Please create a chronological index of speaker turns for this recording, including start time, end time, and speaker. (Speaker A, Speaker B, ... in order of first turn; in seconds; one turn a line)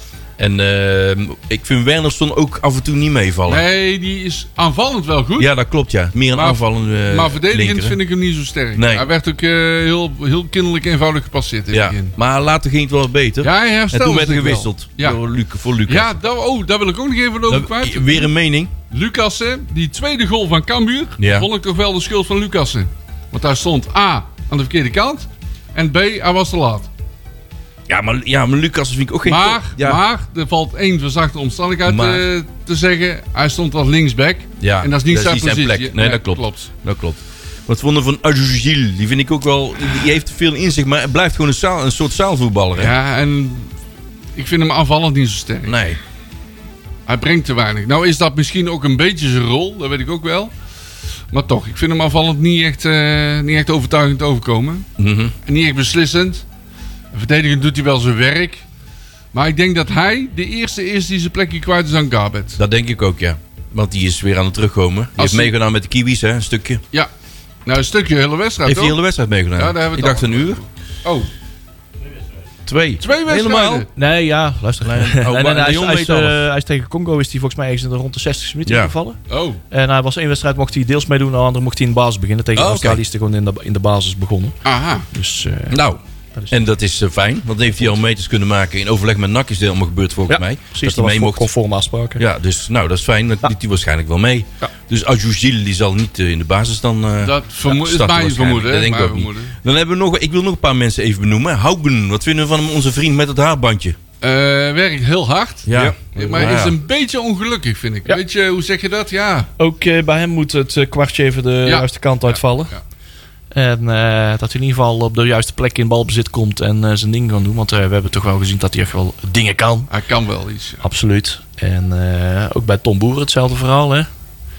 Speaker A: 0.4-3.6
Speaker B: 3.5-5.5
Speaker A: 5.4-8.0
Speaker B: 6.3-12.2
Speaker A: 8.8-9.1
Speaker A: 11.7-16.1
Speaker B: 13.4-15.2
Speaker B: 15.9-18.3
Speaker A: 17.5-18.7
Speaker B: 18.9-26.9
Speaker A: 21.2-21.5
Speaker A: 27.9-30.0
Speaker B: 29.2-36.7
Speaker A: 31.9-32.2
Speaker A: 34.6-42.9
Speaker B: 42.8-43.8
Speaker B: 44.4-45.8
Speaker A: 45.7-46.0
Speaker B: 47.1-50.5
Speaker B: 51.3-54.9
Speaker A: 55.0-55.3
Speaker B: 55.5-56.5
Speaker B: 57.1-58.6
Speaker B: 59.3-62.6
Speaker A: 62.6-66.8
Speaker B: 65.2-65.5
Speaker B: 67.7-69.0
Speaker A: 68.7-70.6
Speaker B: 69.5-71.3
Speaker C: 72.7-73.0
Speaker B: 73.0-73.9
Speaker A: 73.0-73.9
Speaker C: 73.9-85.8
Speaker A: 74.8-76.4
Speaker A: 78.7-78.9
Speaker B: 79.3-79.6
Speaker A: 82.5-83.0
Speaker B: 84.7-85.1
Speaker A: 85.7-86.0
Speaker C: 86.4-86.6
Speaker A: 86.5-91.5
Speaker C: 90.3-92.2
Speaker A: 92.2-104.0
Speaker B: 97.2-99.6
Speaker B: 104.2-109.5
Speaker A: 105.7-106.8
Speaker C: 105.7-106.6
Speaker C: 109.6-112.7
Speaker B: 111.7-112.8
Speaker C: 113.5-119.9
Speaker B: 119.9-120.8
Speaker C: 120.8-124.1